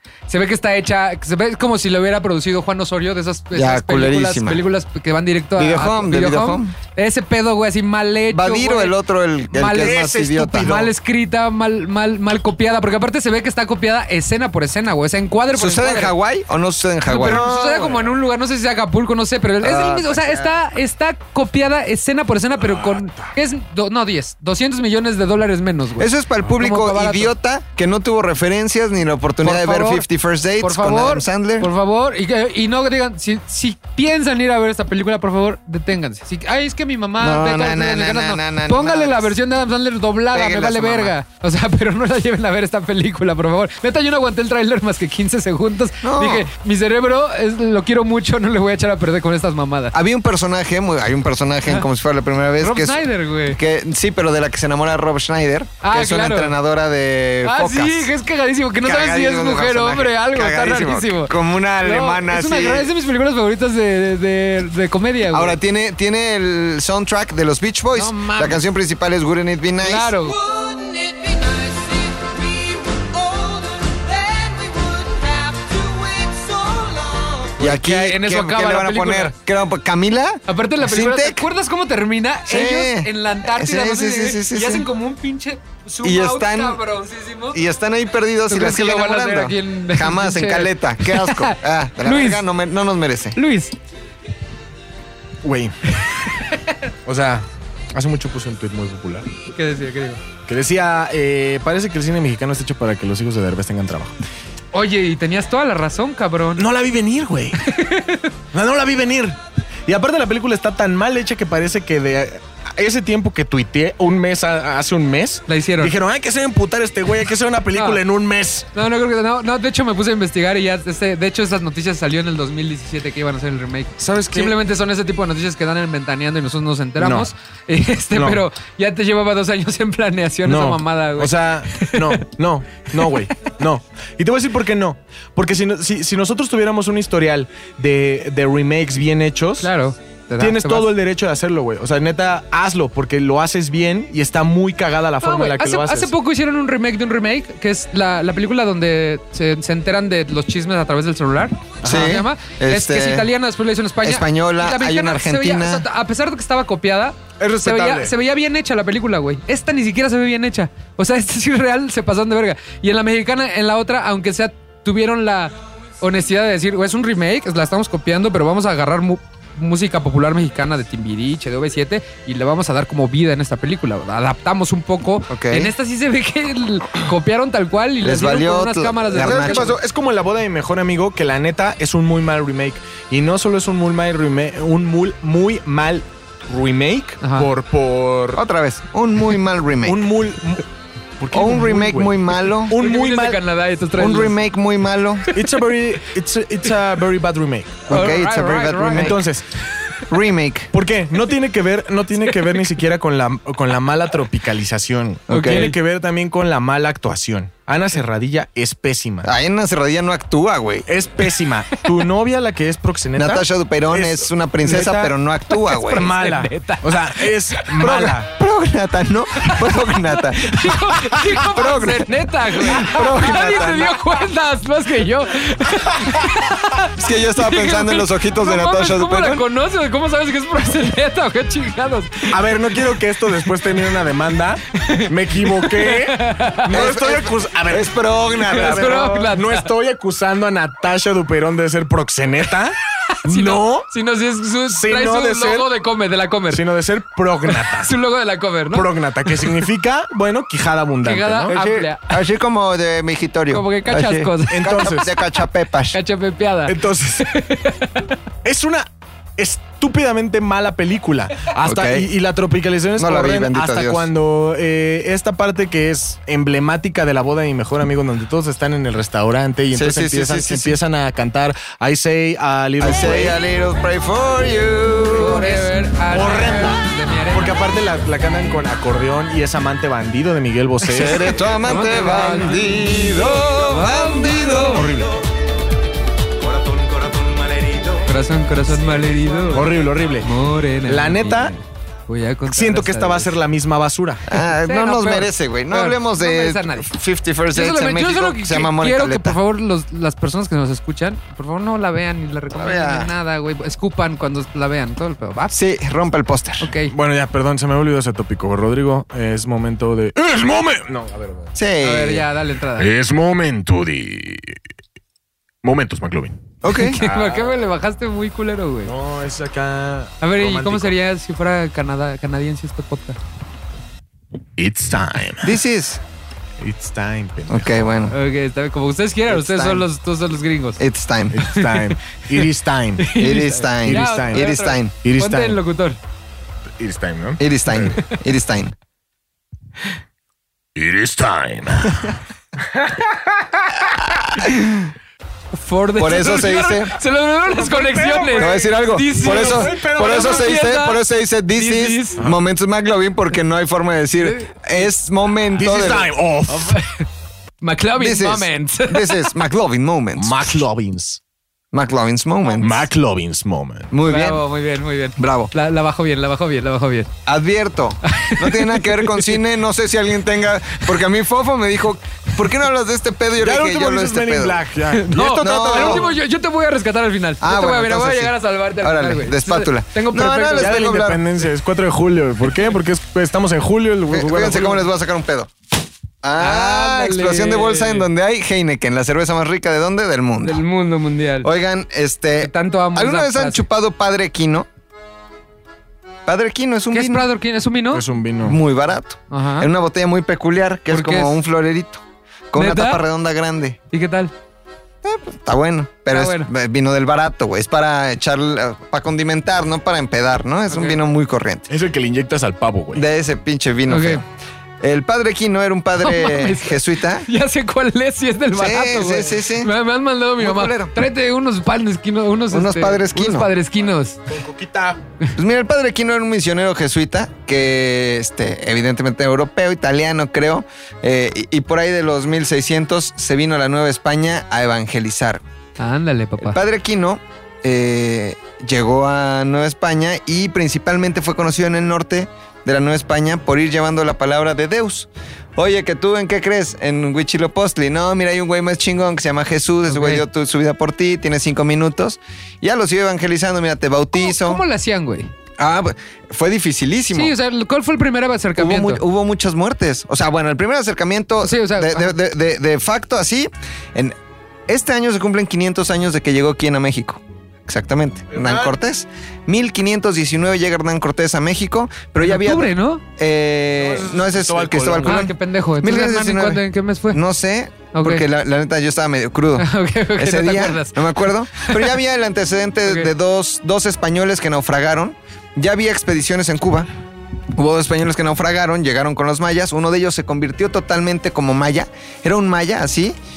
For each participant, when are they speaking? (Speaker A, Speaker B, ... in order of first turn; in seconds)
Speaker A: 0.3-8.9, 9.5-16.1, 17.1-27.3, 29.4-30.1, 30.6-49.9, 52.6-53.6, 55.8-56.5, 57.4-65.6, 67.9-68.6, 69.8-70.4, 77.6-79.3, 80.5-87.6, 88.5-92.4, 93.4-93.7, 96.4-96.7, 99.5-100.2, 104.7-106.6, 107.6-108.3, 115.5-115.9, 117.7-118.0, 118.7-132.2, 139.6-140.9, 145.2-179.7, 187.2-187.5, 192.7-194.4, 197.9-199.2, 202.2-202.6, 205.3-205.7, 215.5-217.7, 219.4-232.3, 234.8-236.8, 238.5-239.7, 243.2-246.6, 247.5-249.6, 251.0-252.2, 253.5-254.9, 255.9-258.1, 275.1-277.6, 281.1-284.9, 288.1-289.7, 290.2-293.3, 294.4-296.9, 297.5-305.6, 306.6-306.9, 311.8-312.9, 316.7-318.9, 320.2-323.2, 328.1-330.8, 331.5-331.9, 333.0-336.0, 345.5-351.0, 351.5-352.2, 354.2-354.9, 356.5-357.1, 357.6-359.3, 364.1-367.1, 368.1-369.3, 374.9-380.8, 386.4-388.1, 390.4-391.5, 392.4-393.6, 396.9-398.0, 399.3-399.7, 400.9-401.4, 402.6-403.0, 403.9-404.3, 406.1-406.5, 410.7-411.0, 413.9-414.2, 416.0-424.2, 435.8-436.6, 449.9-450.2, 454.1-455.3, 457.1-459.0, 461.4-462.1, 472.2-473.0, 475.1-477.2, 477.9-478.2, 479.6-481.0, 481.6-481.9, 482.9-483.1
Speaker B: 3.5-4.6, 5.6-6.7, 8.3-10.7, 15.5-17.8, 19.6-20.5, 26.0-31.7, 37.2-39.3, 40.3-41.1, 46.0-46.5, 49.9-58.1, 58.8-62.9, 65.3-70.1, 77.6-81.5, 82.5-84.9, 86.0-86.8, 87.5-93.4, 151.8-153.3, 154.0-155.8, 175.3-175.7, 178.0-179.8, 188.3-190.0, 191.3-192.7, 194.0-195.3, 197.9-199.2, 200.1-200.7, 205.3-205.7, 209.2-210.9, 213.2-216.1, 217.8-224.0, 227.0-229.4, 236.7-239.0, 251.5-256.0, 261.6-262.1, 263.0-264.1, 269.7-270.8, 272.8-275.6, 280.9-284.9, 294.3-299.4, 302.6-303.1, 305.5-306.7, 311.6-312.2, 316.6-317.0, 325.4-326.0, 327.5-328.1, 329.3-329.9, 330.8-331.4, 333.2-334.9, 337.4-338.7, 344.4-344.9, 345.9-346.9, 348.4-356.1, 358.0-360.6, 361.7-362.9, 363.9-364.4, 365.2-365.5, 367.3-374.6, 375.4-376.1, 377.4-381.2, 384.1-385.5, 386.2-390.6, 391.4-394.7, 396.3-397.3, 398.4-403.8, 405.0-411.7, 412.9-414.3, 414.8-417.3, 418.5-419.7, 420.4-420.9, 422.5-423.5, 425.4-435.4, 436.4-454.6, 455.6-457.3, 458.6-464.1, 464.7-486.9, 487.6-493.2
Speaker C: 9.8-10.9, 17.2-18.1, 22.6-23.3, 95.4-95.7, 97.0-99.3, 100.5-104.1, 106.6-107.6, 108.5-118.7, 124.1-124.5, 127.0-127.3, 128.1-128.4, 130.4-139.7, 140.4-146.1, 151.8-152.2, 157.4-158.1, 179.1-188.4, 189.8-190.6, 191.2-193.4, 195.3-197.9, 198.9-199.4, 200.7-209.3, 210.9-215.1, 215.9-218.3, 232.3-243.9, 244.7-245.7, 246.5-247.9, 248.7-251.5, 254.5-255.1, 256.7-257.3, 258.4-258.9, 259.4-273.4, 276.1-281.3, 284.7-285.1, 289.5-290.3, 290.9-291.5, 292.5-294.2, 306.9-311.5, 312.8-314.6, 315.6-316.4, 316.9-317.6, 318.8-320.9, 324.6-325.6, 326.6-327.9, 331.3-333.1, 333.8-334.5, 335.0-335.6, 336.8-338.0, 340.8-342.2, 342.7-343.9, 346.2-346.7, 347.4-350.7, 355.6-356.8, 360.1-361.2, 362.6-363.9, 373.4-376.1, 380.6-384.9, 397.9-398.6, 411.7-413.0, 424.3-425.0, 468.3-468.8, 473.8-475.3